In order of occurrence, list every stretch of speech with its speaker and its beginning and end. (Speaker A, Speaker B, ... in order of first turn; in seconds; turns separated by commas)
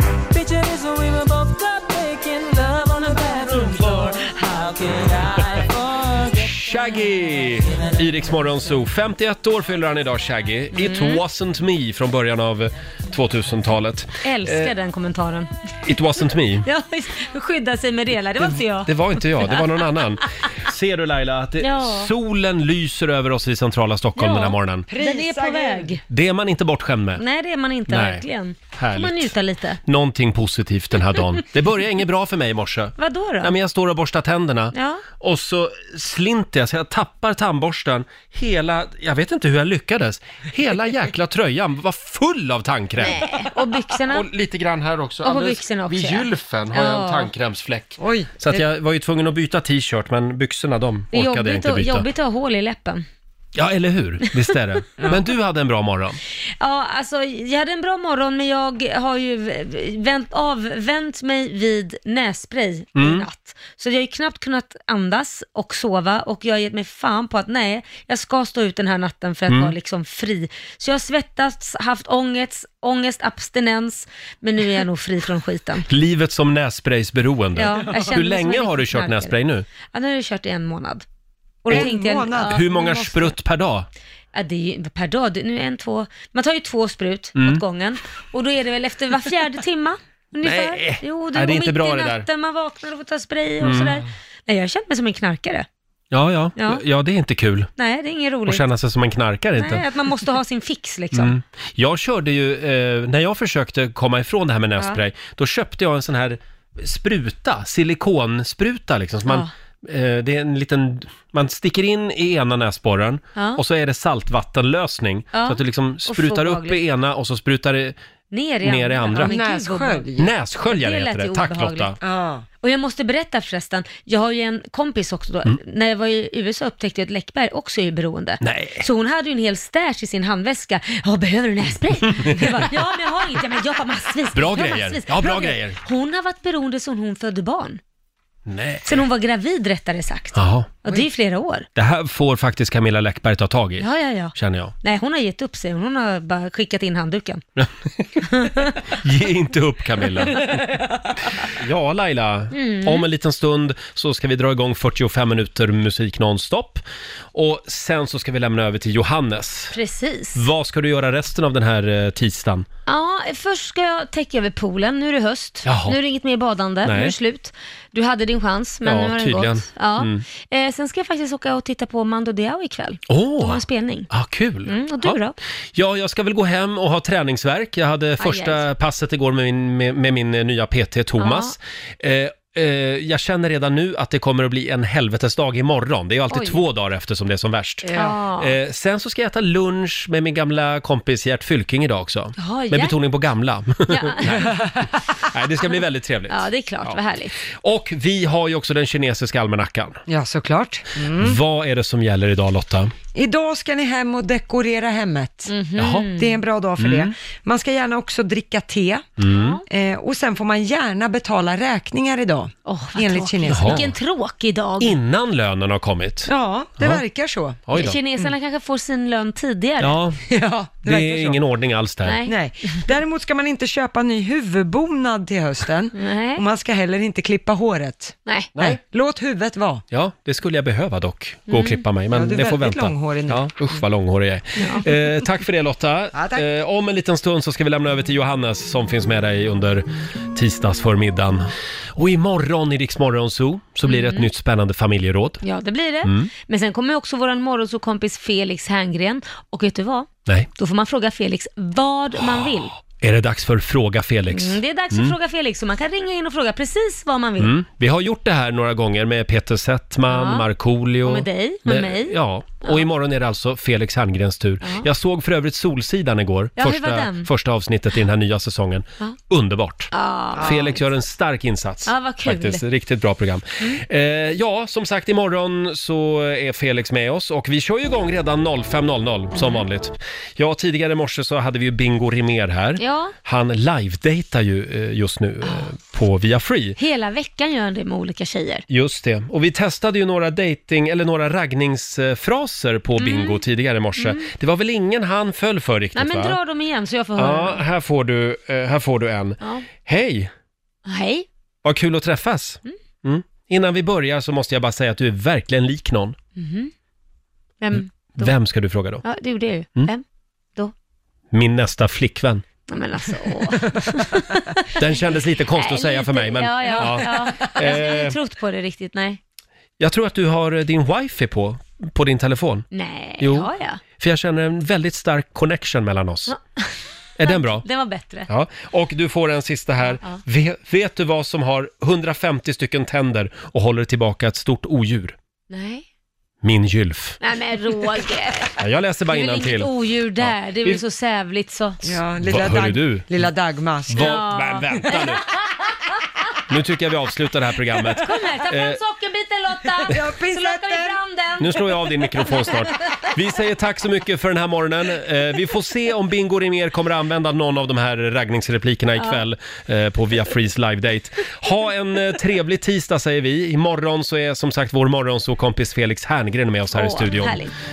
Speaker A: 0.3-6.7, Speaker B: 6.4-14.7, Speaker C: 10.7-11.2, Speaker C: 14.2-16.0, Speaker B: 15.8-16.7, Speaker C: 16.6-20.0, Speaker B: 18.4-24.9, Speaker C: 21.6-22.1, Speaker C: 24.1-26.0, Speaker D: 24.9-26.0, Speaker B: 26.1-27.2, Speaker C: 27.2-29.8, Speaker B: 27.9-29.3, Speaker B: 29.8-43.2, Speaker C: 33.0-33.5, Speaker C: 34.7-35.0, Speaker C: 43.0-44.3, Speaker B: 44.1-52.0, Speaker C: 45.2-47.3, Speaker D: 48.0-48.3, Speaker C: 51.1-53.0, Speaker B: 53.5-56.2, Speaker C: 56.6-75.9, Speaker B: 63.0-63.2, Speaker B: 69.5-69.7, Speaker B: 75.9-79.6, Speaker C: 77.6-79.3, Speaker C: 79.9-81.0, Speaker C: 81.6-83.3, Speaker D: 81.7-82.6, Speaker B: 82.4-83.9, Speaker C: 84.3-95.7, Speaker B: 87.3-87.6, Speaker B: 90.4-92.2, Speaker B: 93.6-94.0, Speaker B: 96.1-97.7, Speaker C: 96.6-96.8, Speaker C: 97.8-98.7, Speaker B: 98.5-99.8, Speaker C: 99.6-101.3, Speaker B: 101.1-118.0, Speaker C: 113.3-113.6, Speaker C: 115.3-116.8, Speaker C: 118.3-120.1, Speaker B: 118.6-119.3, Speaker D: 119.2-120.3, Speaker B: 120.2-122.0, Speaker C: 120.6-122.0, Speaker D: 122.0-122.5, Speaker C: 122.6-137.8, Speaker B: 128.4-128.8, Speaker B: 132.1-132.5, Speaker B: 134.3-135.8, Speaker B: 138.5-139.0, Speaker C: 138.8-141.7, Speaker B: 140.3-140.8, Speaker B: 141.7-144.7, Speaker C: 143.8-147.4, Speaker B: 147.6-148.2, Speaker C: 148.3-148.8, Speaker B: 149.0-150.6, Speaker B: 151.4-156.8, Speaker C: 152.5-153.1, Speaker B: 157.3-159.8, Speaker C: 159.7-160.4, Speaker B: 160.3-162.7, Speaker C: 162.9-174.1, Speaker B: 165.7-166.0, Speaker B: 166.8-167.1, Speaker B: 168.8-170.2, Speaker B: 173.1-175.2, Speaker C: 174.7-175.3, Speaker B: 175.7-194.6, Speaker C: 178.2-178.6, Speaker C: 181.2-181.5, Speaker C: 186.3-186.6, Speaker C: 187.9-188.6, Speaker C: 192.4-193.0, Speaker C: 193.9-194.5, Speaker B: 195.2-200.0, Speaker C: 196.3-197.3, Speaker D: 200.1-201.4, Speaker B: 201.2-202.9, Speaker D: 203.1-209.1, Speaker C: 205.5-206.4, Speaker B: 205.8-206.1, Speaker B: 206.8-207.1, Speaker B: 209.2-209.6, Speaker C: 209.3-209.6, Speaker D: 209.7-213.9, Speaker C: 212.7-215.0, Speaker B: 213.5-213.8, Speaker B: 214.8-217.0, Speaker D: 216.3-218.3, Speaker B: 217.7-218.0, Speaker C: 217.7-220.0, Speaker B: 219.8-220.2, Speaker D: 220.3-221.4, Speaker B: 220.8-222.2, Speaker C: 222.0-222.8, Speaker D: 222.2-229.8, Speaker C: 225.9-226.4, Speaker B: 229.9-245.4, Speaker C: 231.5-231.8, Speaker D: 232.1-233.5, Speaker C: 234.6-234.8, Speaker D: 236.1-236.4, Speaker C: 243.8-244.3, Speaker C: 245.4-252.7, Speaker B: 246.0-246.3, Speaker B: 252.4-255.1, Speaker C: 254.3-257.5, Speaker B: 257.4-286.8, Speaker C: 260.1-260.5, Speaker C: 261.0-262.8, Speaker C: 264.6-264.9, Speaker C: 266.6-267.3, Speaker C: 269.9-270.8, Speaker C: 271.9-272.6, Speaker C: 279.4-279.6, Speaker C: 282.8-283.1, Speaker C: 286.8-288.6, Speaker B: 288.7-296.4, Speaker C: 293.0-293.4, Speaker C: 294.0-294.2, Speaker C: 295.9-297.6, Speaker B: 297.1-300.3, Speaker C: 300.8-301.2, Speaker B: 301.6-306.1, Speaker C: 306.4-306.7, Speaker C: 307.6-308.3, Speaker B: 307.7-309.0, Speaker C: 309.0-310.0, Speaker B: 311.3-312.4, Speaker C: 312.7-314.8, Speaker B: 314.7-318.1, Speaker C: 315.6-319.2, Speaker D: 316.7-317.5, Speaker B: 319.8-322.7, Speaker C: 322.7-323.8, Speaker B: 323.2-326.3, Speaker C: 326.3-326.7, Speaker B: 327.2-327.6, Speaker C: 327.2-328.3, Speaker B: 328.3-335.1, Speaker C: 335.5-335.8, Speaker B: 336.4-337.2, Speaker C: 337.2-342.0, Speaker B: 338.6-339.7, Speaker B: 340.2-340.8, Speaker D: 341.8-344.2, Speaker B: 342.2-343.1, Speaker B: 343.9-345.2, Speaker C: 343.9-345.4, Speaker B: 346.5-348.8, Speaker C: 347.9-352.6, Speaker D: 349.9-351.0, Speaker B: 351.4-367.4, Speaker C: 366.7-367.5